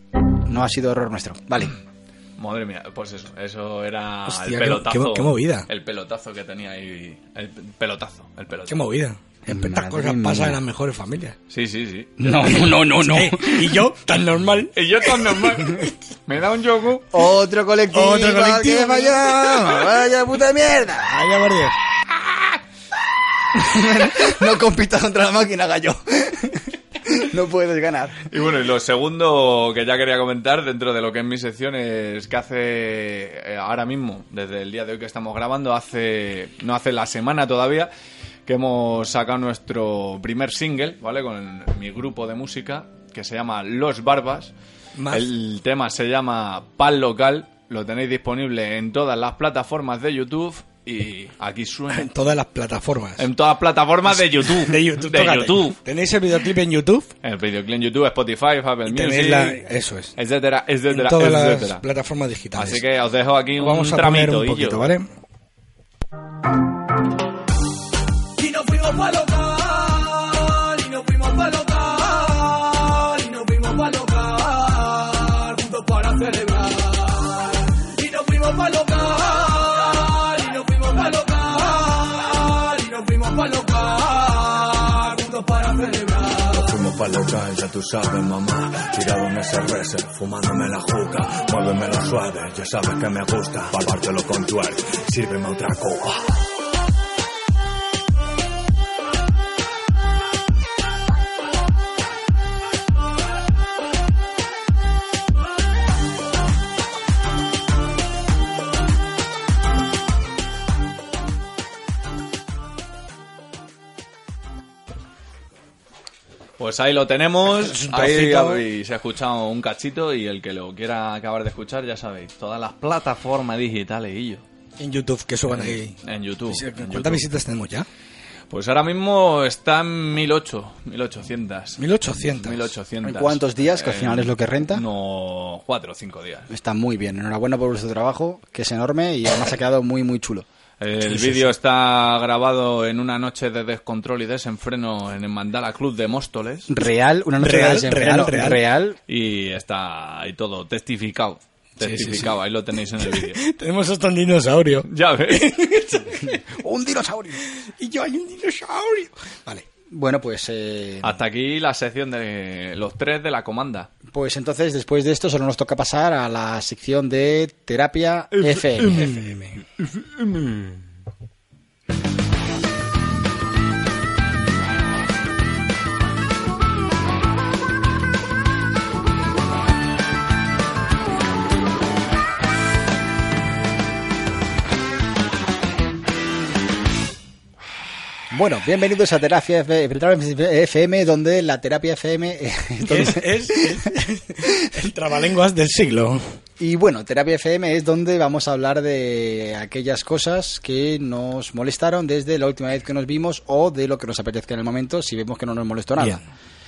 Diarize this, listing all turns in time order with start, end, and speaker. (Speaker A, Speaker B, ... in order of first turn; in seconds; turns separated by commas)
Speaker A: 0.4-1.8, Speaker B: 2.4-8.8, Speaker C: 4.3-5.7, Speaker C: 8.7-11.4, Speaker A: 9.5-10.6, Speaker B: 11.5-12.7, Speaker A: 12.2-13.9, Speaker C: 12.9-15.1, Speaker B: 14.8-17.1, Speaker A: 17.1-21.3, Speaker C: 17.9-19.9, Speaker C: 21.1-21.8, Speaker A: 22.1-22.5, Speaker A: 23.5-28.3, Speaker B: 28.3-37.9, Speaker B: 38.5-44.5, Speaker C: 45.0-45.3, Speaker B: 45.1-52.1, Speaker C: 51.9-53.3, Speaker B: 53.2-55.8, Speaker C: 54.1-57.1, Speaker B: 57.2-59.6, Speaker C: 58.9-60.1, Speaker B: 60.2-61.8, Speaker C: 60.9-62.8, Speaker B: 62.5-64.9, Speaker C: 63.6-65.1, Speaker D: 68.4-86.6, Speaker E: 86.5-96.3, Speaker B: 116.6-124.4, Speaker C: 117.6-118.6, Speaker C: 124.8-127.9, Speaker B: 125.5-127.3, Speaker B: 128.5-131.8, Speaker C: 131.8-132.7, Speaker B: 132.3-136.5, Speaker A: 133.0-134.8, Speaker A: 136.5-140.5, Speaker B: 140.8-146.7, Speaker C: 141.1-141.4, Speaker A: 146.7-149.0, Speaker C: 147.4-148.6, Speaker B: 149.1-153.4, Speaker C: 151.8-152.4, Speaker C: 152.9-156.4, Speaker B: 154.8-155.5, Speaker A: 156.3-157.4, Speaker C: 157.6-159.7, Speaker A: 159.9-161.2, Speaker B: 161.0-163.9, Speaker A: 164.1-169.3, Speaker B: 168.3-169.2, Speaker C: 168.9-169.5, Speaker B: 169.8-170.8, Speaker A: 188.3-193.9, Speaker C: 192.8-196.3, Speaker A: 196.6-206.2, Speaker C: 206.0-206.2